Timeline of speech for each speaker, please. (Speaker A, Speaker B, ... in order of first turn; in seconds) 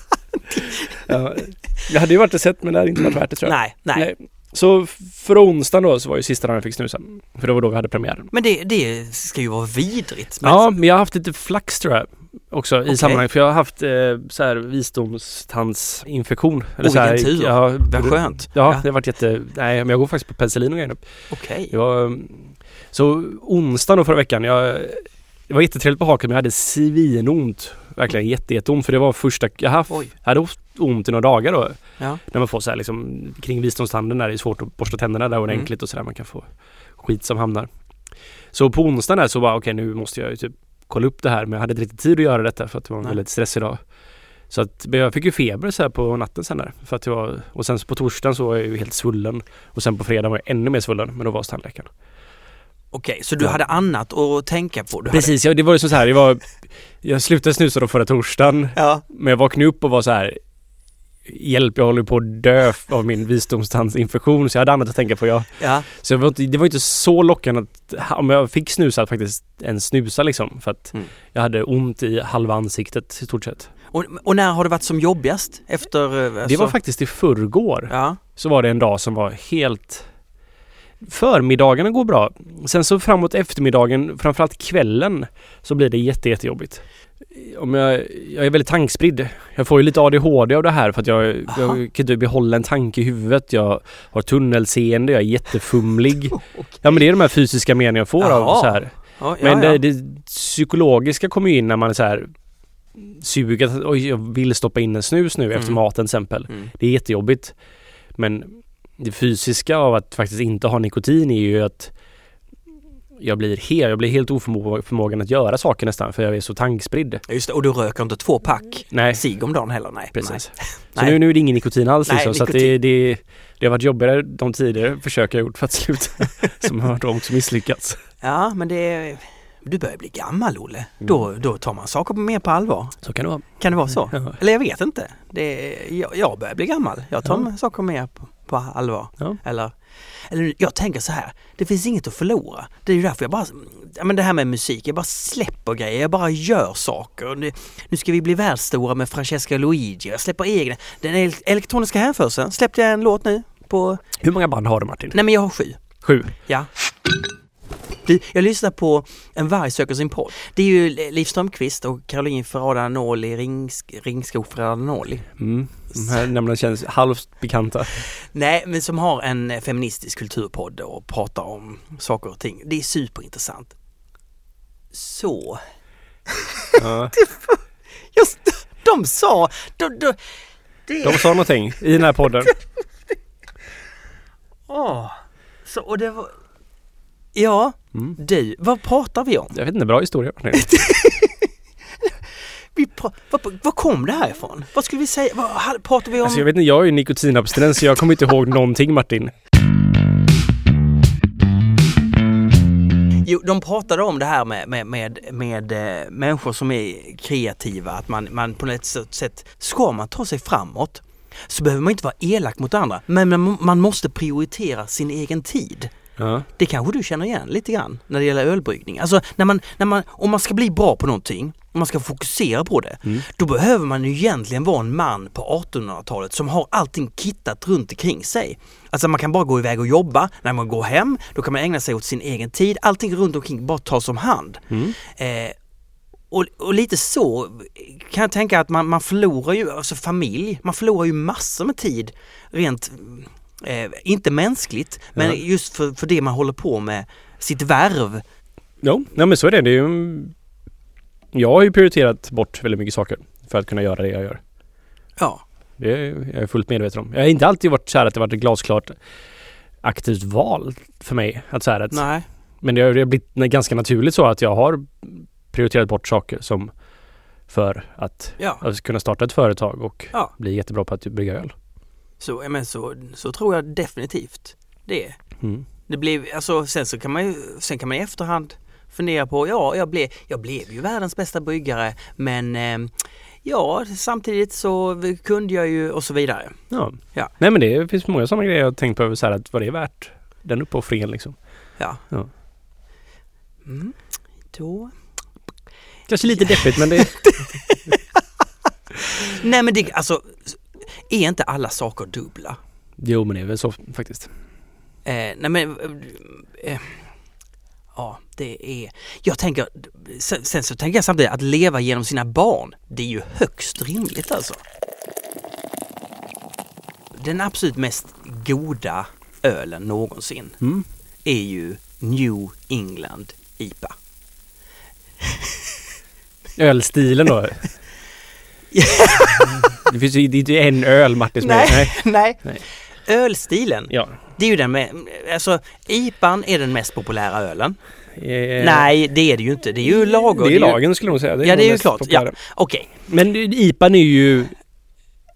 Speaker A: 0.5-0.9, 3.4-4.1, 8.3-10.6, 12.9-13.2, 16.8-18.8, 21.3-21.7, 52.9-55.3, 58.7-59.0, 65.6-65.8, 73.9-76.8, 77.9-78.2, 91.5-91.8, 96.4-97.0, 98.2-99.8, 117.3-121.2, 122.0-122.7, 128.2-133.0, 133.6-139.7, 140.3-154.0, 155.1-155.8, 158.0-165.2, 168.3-173.7, 174.9-175.6, 176.3-177.6, 178.1-180.2, 180.9-181.4, 184.7-185.1, 185.7-186.3, 187.3-189.6, 190.5-191.5, 192.7-196.4, 203.2-215.9, 216.6-235.6, 236.3-248.2, 255.2-255.4, 261.9-262.2, 268.4-268.6, 272.2-275.2, 275.9-286.6, 293.6-294.0, 294.5-294.9, 296.3-298.2, 298.9-302.6, 305.1-307.0, 307.9-314.6, 317.1-320.6, 321.2-323.9, 325.2-325.6, 328.7-329.8, 331.4-332.4, 333.1-337.8, 338.6-340.8, 341.4-342.9
Speaker B: 1.0-8.3, 10.4-21.0, 21.7-37.7, 38.5-43.8, 44.5-51.9, 55.1-60.4, 61.2-73.7, 76.4-80.0, 81.0-102.3, 103.0-107.5, 108.2-111.9, 113.2-117.2, 118.9-119.2, 120.1-128.0, 133.0-133.5, 134.1-134.3, 154.2-155.2, 156.0-156.3, 165.4-168.1, 176.8-177.1, 181.0-182.5, 189.5-190.7, 196.2-199.3, 216.2-216.5, 234.7-234.9, 248.8-250.3, 251.3-254.4, 255.8-258.9, 259.8-262.0, 262.6-266.7, 267.5-271.5, 275.4-275.6, 286.7-291.4, 296.1-297.3, 303.0-304.3, 320.6-320.9, 326.6-327.7, 329.4-332.6, 333.9-334.2, 338.1-338.9, 340.2-342.4, 343.0-344.5